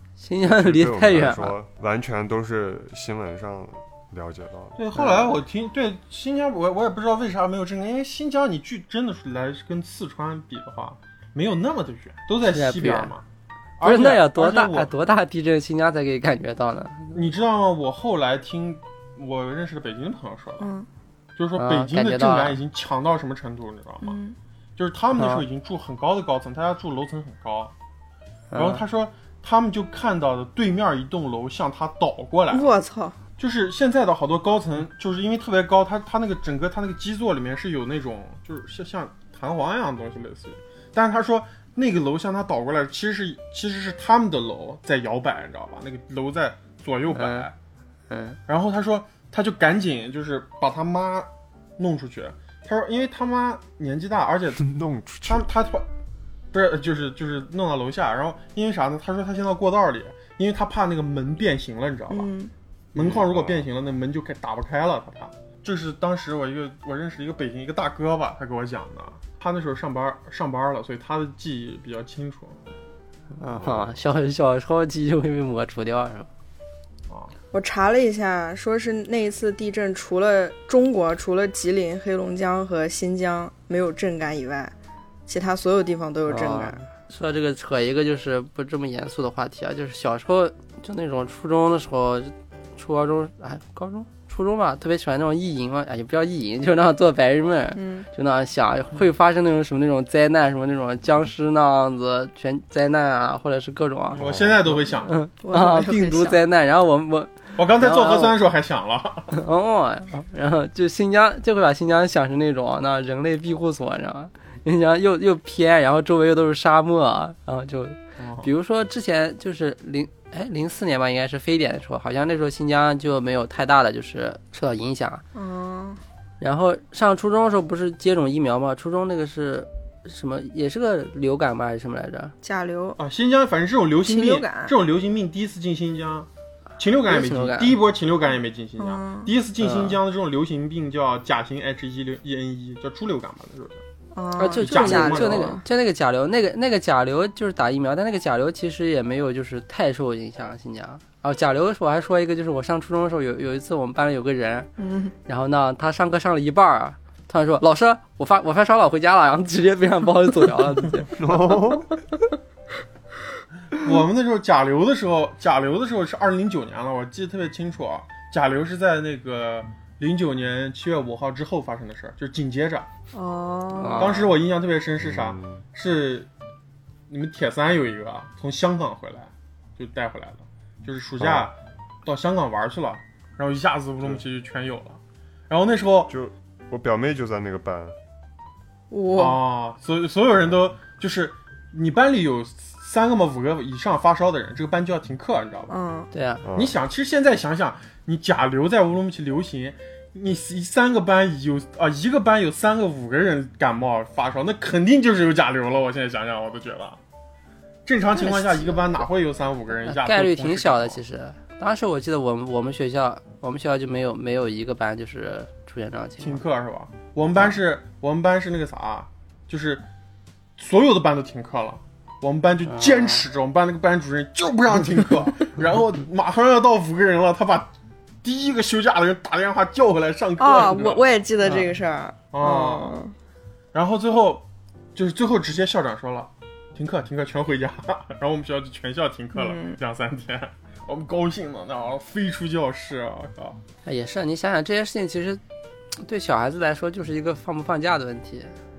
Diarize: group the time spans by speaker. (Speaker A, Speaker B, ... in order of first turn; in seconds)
Speaker A: 0.2-1.5, 5.0-5.4, 12.4-13.1, 13.8-17.2, 21.6-22.6, 25.1-25.4, 28.5-28.8, 47.1-47.5, 48.1-48.4, 73.4-76.3, 86.3-104.2, 105.1-108.4, 109.3-125.2, 126.4-132.3, 137.1-137.8, 139.6-140.0, 144.4-154.7, 155.3-161.1, 173.8-174.3, 196.1-196.4, 208.2-209.0, 209.8-216.4, 222.7-223.2, 231.4-231.7, 243.8-245.4, 246.0-248.6
Speaker B: 0.4-4.8, 54.6-55.5, 63.0-63.7, 73.5-73.9, 104.2-104.8, 161.1-162.0, 175.0-175.6, 181.2-181.5, 186.1-188.0, 196.4-196.8
Speaker C: 4.8-13.2, 13.8-14.9, 17.1-20.7, 21.4-24.2, 24.8-27.7, 28.6-32.7, 33.4-47.5, 48.5-54.6, 55.3-55.9, 56.5-62.3, 62.9-72.6, 77.1-77.3, 104.1-105.2, 107.6-109.4, 118.2-118.5, 133.0-143.8, 144.6-145.6, 163.8-172.9, 174.0-176.3, 177.1-186.1, 189.2-195.8, 196.6-207.0, 207.9-211.0, 216.2-219.8, 220.6-227.7, 228.2-231.0, 232.3-233.0, 233.7-243.6
Speaker D: 20.6-20.9, 24.0-24.4, 32.5-33.2, 62.1-62.5, 77.5-84.7, 85.3-86.8, 97.8-98.1, 105.4-106.4, 125.3-126.0, 132.4-133.0, 134.1-134.7, 138.8-139.3, 144.1-145.6, 154.8-155.1, 173.1-174.3, 188.9-189.4, 195.7-196.1, 230.4-233.2, 239.3-239.8